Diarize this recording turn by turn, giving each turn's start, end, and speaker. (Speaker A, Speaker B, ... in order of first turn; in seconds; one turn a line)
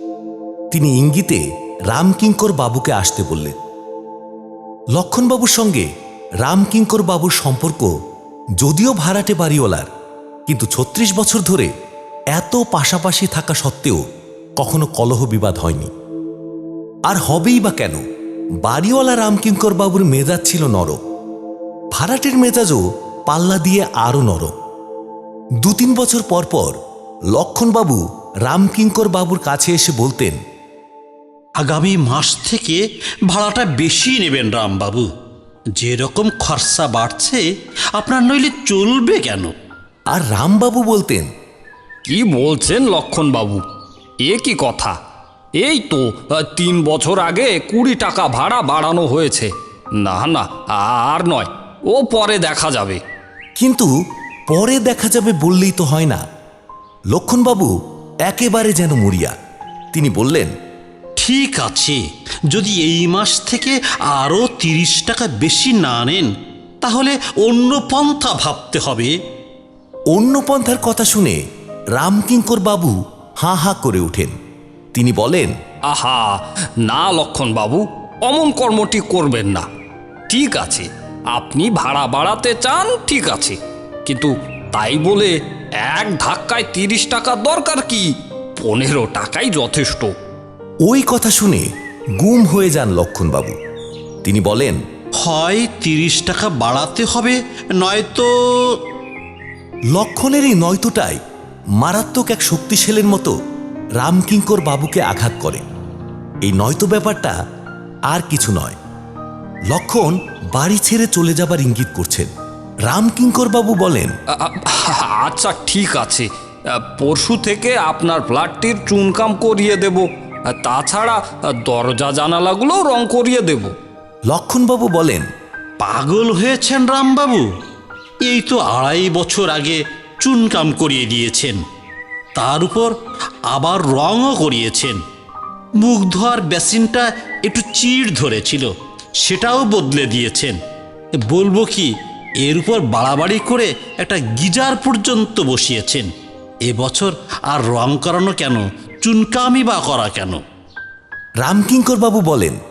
Speaker A: 0.7-3.5
Speaker A: 5.0-5.9
Speaker A: 6.4-7.9
Speaker A: 8.6-9.9
Speaker A: 10.5-11.7
Speaker A: 12.3-14.0
Speaker A: 14.6-15.9
Speaker A: 17.1-18.0
Speaker A: 18.6-21.0
Speaker A: 21.9-24.5
Speaker A: 25.6-26.8
Speaker A: 27.3-30.4
Speaker B: 31.6-35.1
Speaker B: 35.8-39.5
Speaker A: 40.1-41.3
Speaker C: 42.1-43.6
Speaker C: 44.2-45.0
Speaker C: 45.6-53.0
Speaker A: 53.6-53.9
Speaker A: 54.5-56.2
Speaker A: 57.1-57.7
Speaker A: 58.3-59.4
Speaker A: 59.9-60.5
Speaker B: 61.2-66.3
Speaker B: 66.8-69.2
Speaker A: 70.1-71.4
Speaker A: 72.0-74.3
Speaker A: 74.9-75.5
Speaker C: 75.9-79.7
Speaker C: 80.3-90.1
Speaker A: 90.8-91.7
Speaker A: 92.2-93.6
Speaker A: 94.2-94.8
Speaker B: 95.2-98.3
Speaker A: 99.9-101.2
Speaker A: 101.8-103.3
Speaker A: 104.0-105.6
Speaker A: 106.4-107.4
Speaker A: 108.1-108.8
Speaker A: 109.7-112.3
Speaker A: 112.9-114.1
Speaker C: 114.3-123.7
Speaker A: 124.3-125.3
Speaker B: 125.8-127.5
Speaker B: 128.3-131.6
Speaker B: 132.4-132.9
Speaker B: 133.5-135.0
Speaker B: 135.8-140.6
Speaker B: 141.2-146.1
Speaker B: 146.7-150.4
Speaker A: 151.4-152.6